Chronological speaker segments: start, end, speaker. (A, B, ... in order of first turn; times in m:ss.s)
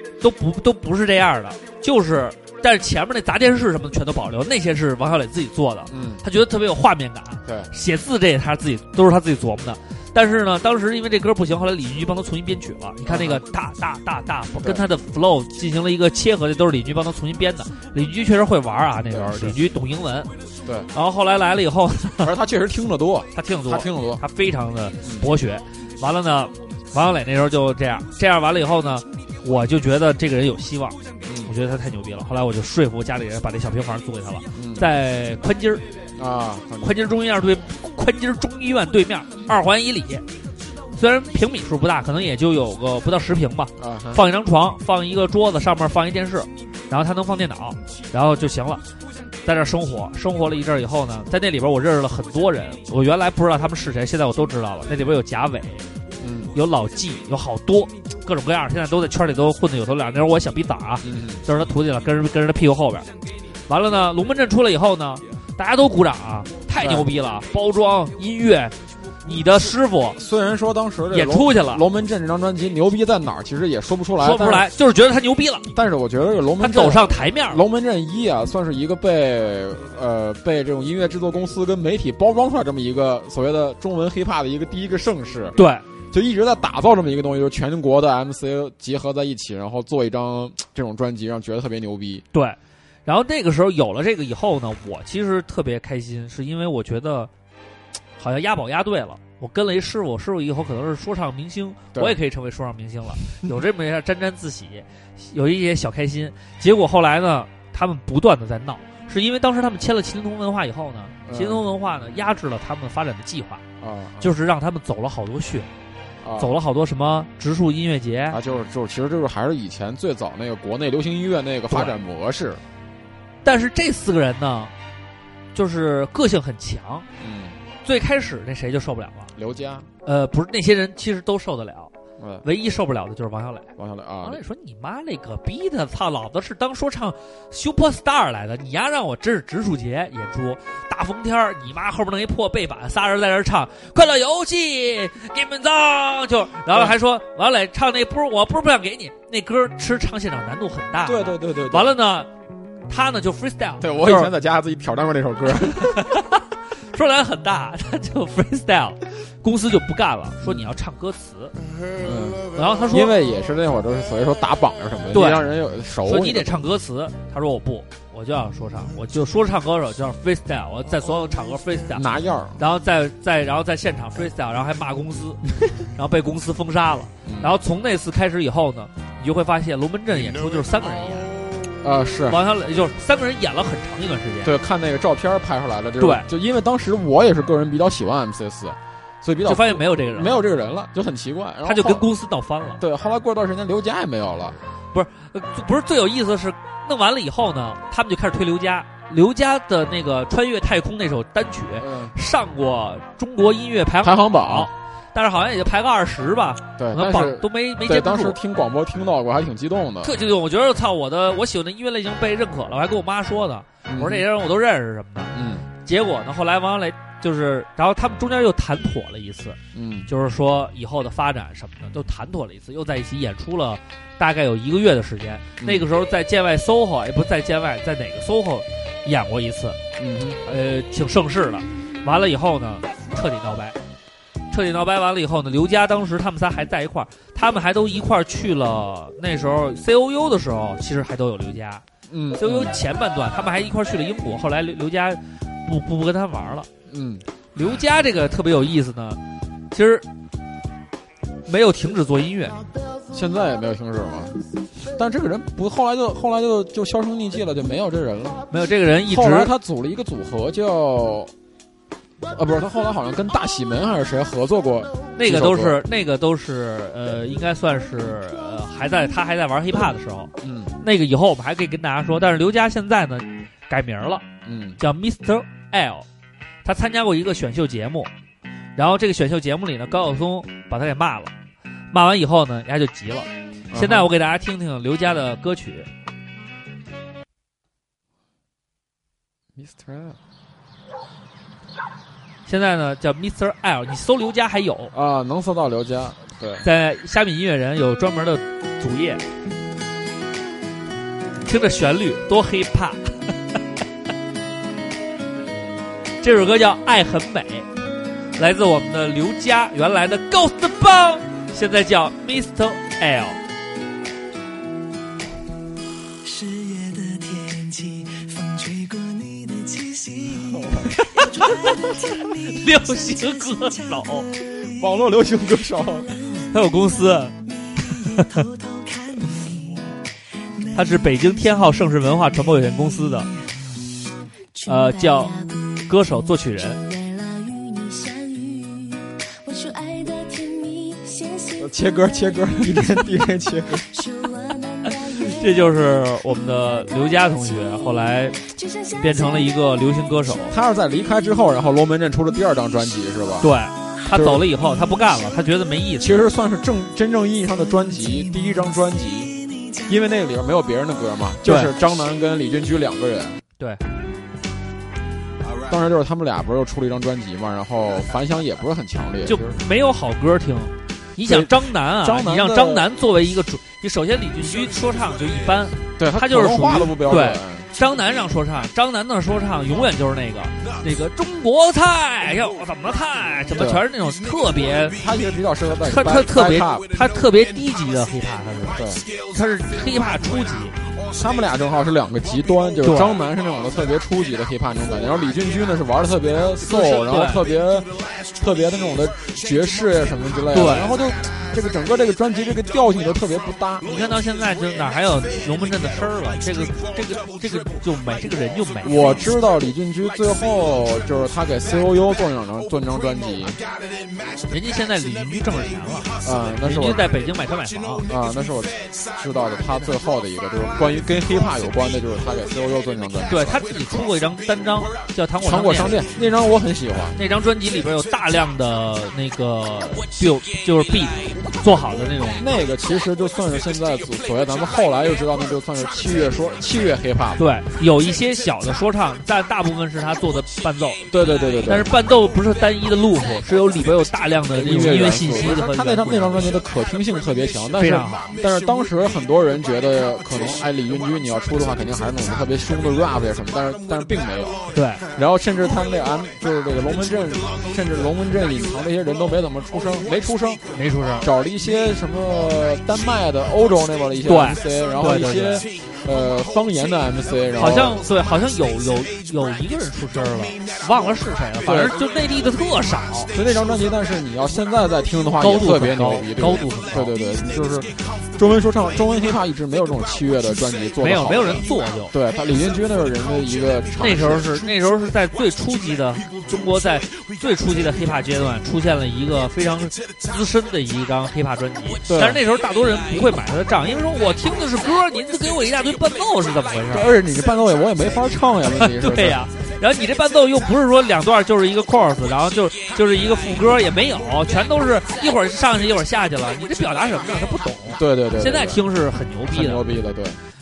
0:00.2-0:20.3 A
0:05.9-0:06.2 B
0:13.0-0:13.4 B
0:14.6-0:14.9 B
0:19.1-0:19.6 B
0:20.6-0:20.9 B
0:20.9-0:22.3 A
0:22.2-0:24.2 B
0:23.3-0:35.8 A
0:25.0-0:25.3 B
0:31.2-0:31.5 B
0:34.5-0:34.9 B
0:36.2-0:37.0 B
0:36.8-0:40.2 A
0:40.9-0:48.8 A
0:43.8-0:44.2 B
0:49.4-0:55.9 A
0:56.2-0:56.5 B
0:56.5-1:03.1 A
1:01.0-1:01.4 B
1:03.7-1:10.2 A
1:06.8-1:07.1 B
1:10.2-1:14.7 B
1:11.1-1:11.8 A
1:14.2-1:15.7 A
1:15.7-1:25.6 B
1:16.6-1:17.6 A
1:25.6-1:25.8 A
1:26.1-1:32.2 B
1:32.3-1:37.3 A
1:38.2-1:53.6 A
1:51.2-1:51.6 B
1:53.8-1:54.3 B
1:54.2-1:55.7 A
1:56.2-1:56.5 B
1:56.4-1:58.4 A
1:58.3-2:02.6 B
2:01.7-2:01.9 A
2:03.4-2:04.7 A
2:05.5-2:07.0 A
2:07.2-2:07.6 B
2:07.8-2:09.3 A
2:09.3-2:09.9 B
2:10.0-2:11.9 A
2:12.2-2:12.4 B
2:12.4-2:13.7 A
2:13.8-2:14.4 B
2:14.2-2:32.3 A
2:31.0-2:32.0 B
2:32.9-2:34.3 A
2:33.8-2:36.1 B
2:35.8-2:41.5 A
2:40.4-2:40.7 B
2:42.0-2:46.6 B
2:42.5-2:43.1 A
2:45.1-2:45.4 A
2:46.0-2:52.0 A
2:51.9-2:52.6 B
2:52.6-3:01.3 A
2:57.2-2:57.5 B
3:01.8-3:02.4 B
3:02.3-3:04.6 A
3:04.4-3:12.1 B
3:06.0-3:06.3 A
3:09.4-3:10.4 A
3:11.6-3:12.8 A
3:12.8-3:14.6 B
3:14.9-3:28.4 A
3:21.8-3:22.1 B
3:24.0-3:24.7 B
3:26.8-3:30.2 B
3:30.0-3:35.3 A
3:33.8-3:34.3 B
3:35.3-3:35.7 B
3:35.8-3:49.8 A
3:39.7-3:40.1 B
3:45.6-3:45.9 B
3:50.0-3:50.4 B
3:50.4-3:53.8 A
3:54.5-4:01.8 A
4:02.1-4:02.7 B
4:02.4-4:06.7 A
4:06.9-4:07.2 B
4:07.5-4:09.2 A
4:09.7-4:10.0 A
4:11.4-4:12.6 A
4:13.1-4:18.5 B
4:18.5-4:19.5 A
4:19.0-4:21.3 B
4:22.3-4:25.8 B
4:25.2-4:34.2 A
4:30.4-4:30.7 B
4:34.4-4:34.8 B
4:34.8-4:36.0 A
4:36.6-4:38.1 A
4:38.8-4:41.3 A
4:41.9-4:45.9 A
4:43.7-4:44.1 B
4:49.6-4:50.2 B
4:52.4-4:54.9 A
4:54.9-4:56.7 B
4:56.6-4:59.2 A
5:01.4-5:03.3 A
5:06.2-5:07.7 A
5:08.4-5:13.4 A
5:16.2-5:24.3 C
5:20.3-5:21.0 B
5:21.1-5:24.3 A
5:24.8-5:26.1 B
5:26.2-5:27.0 C
5:26.5-5:27.3 A
5:27.7-5:29.9 C
5:30.6-5:31.8 C
5:30.7-5:33.3 A
5:34.6-5:43.3 C
5:34.7-5:35.3 A
5:35.9-5:36.8 A
5:41.6-5:43.8 B
5:43.9-5:45.7 C
5:45.2-5:48.4 A
5:46.5-5:50.3 C
5:49.0-5:50.5 A
5:50.5-5:53.5 B
5:53.4-5:56.2 A
5:54.1-5:54.4 B
5:56.0-5:59.3 B
5:58.1-5:58.6 C
5:59.9-6:03.4 B
6:01.4-6:01.7 A
6:05.7-6:09.6 B
6:09.2-6:25.0 A
6:11.2-6:12.9 B
6:16.0-6:17.7 B
6:23.5-6:23.8 B
6:24.9-6:26.9 B
6:25.8-6:30.7 A
6:28.7-6:29.0 B
6:31.1-6:43.9 B
6:32.8-6:33.2 A
6:36.6-6:37.4 A
6:40.5-6:40.9 A
6:43.8-6:49.3 A
6:48.8-6:53.6 B
6:54.5-6:58.1 A
6:56.2-6:57.1 B
6:58.0-7:03.6 B
7:03.3-7:06.0 A
7:05.4-7:07.2 B
7:07.2-7:12.5 A
7:12.4-7:17.4 B
7:17.4-7:21.1 A
7:21.1-7:21.9 B
7:21.6-7:26.5 A
7:24.5-7:40.6 B
7:27.8-7:28.4 A
7:34.7-7:35.0 A
7:40.7-7:41.3 A
7:41.2-7:48.0 B
7:44.2-7:45.7 A
7:47.6-7:53.3 A
7:51.6-7:52.0 B
7:53.3-8:04.6 B
7:55.4-7:57.1 A
8:01.0-8:02.1 A
8:04.0-8:17.1 A
8:12.0-8:12.4 B
8:16.9-8:19.4 B
8:18.7-8:29.9 A
8:27.9-8:28.8 B
8:29.5-8:30.4 B